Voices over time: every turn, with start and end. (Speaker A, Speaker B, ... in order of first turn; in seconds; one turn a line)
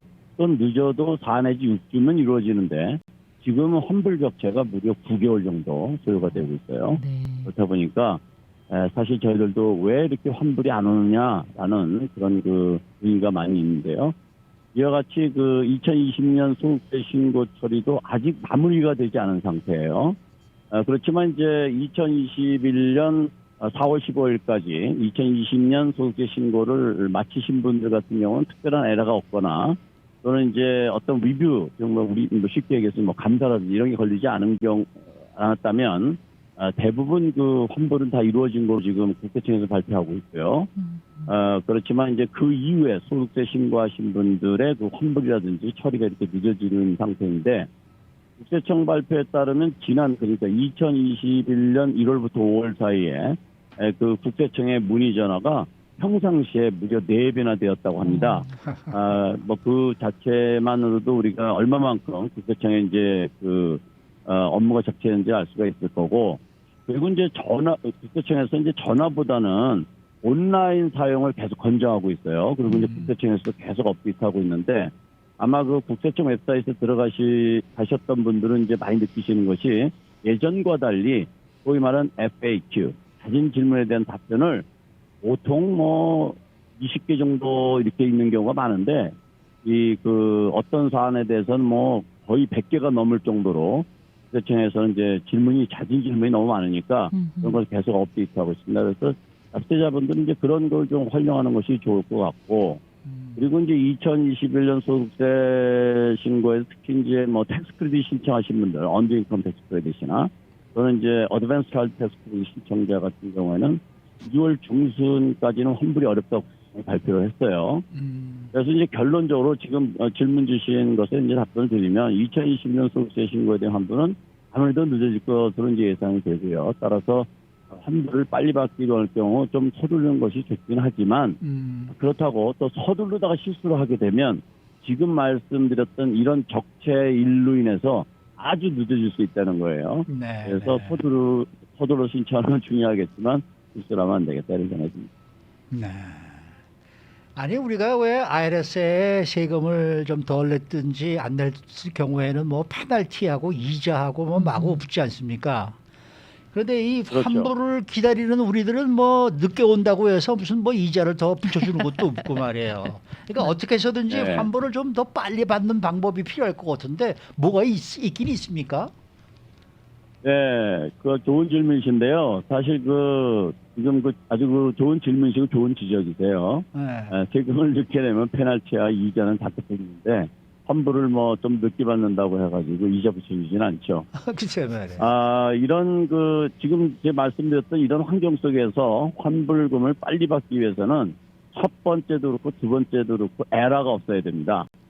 Speaker A: 0.4-14.1
Speaker B: 6.2-7.5
Speaker A: 14.7-20.2
Speaker A: 20.7-40.7
Speaker B: 40.8-41.3
Speaker A: 41.3-47.7
Speaker A: 48.4-84.7
Speaker B: 58.0-58.5
Speaker B: 72.7-73.1
Speaker A: 85.2-102.8
Speaker B: 97.1-97.6
Speaker C: 103.0-103.4
Speaker A: 103.3-117.8
Speaker C: 117.9-118.5
Speaker A: 118.5-131.4
Speaker C: 131.4-131.9
Speaker A: 131.9-145.1
Speaker C: 140.1-141.0
Speaker C: 145.7-146.5
Speaker C: 147.3-155.8
Speaker B: 154.3-154.8
Speaker C: 156.5-168.9
Speaker A: 157.1-157.5
Speaker A: 164.1-164.5
Speaker A: 170.2-184.1
Speaker C: 176.7-177.1
Speaker C: 184.1-185.0
Speaker A: 185.0-194.7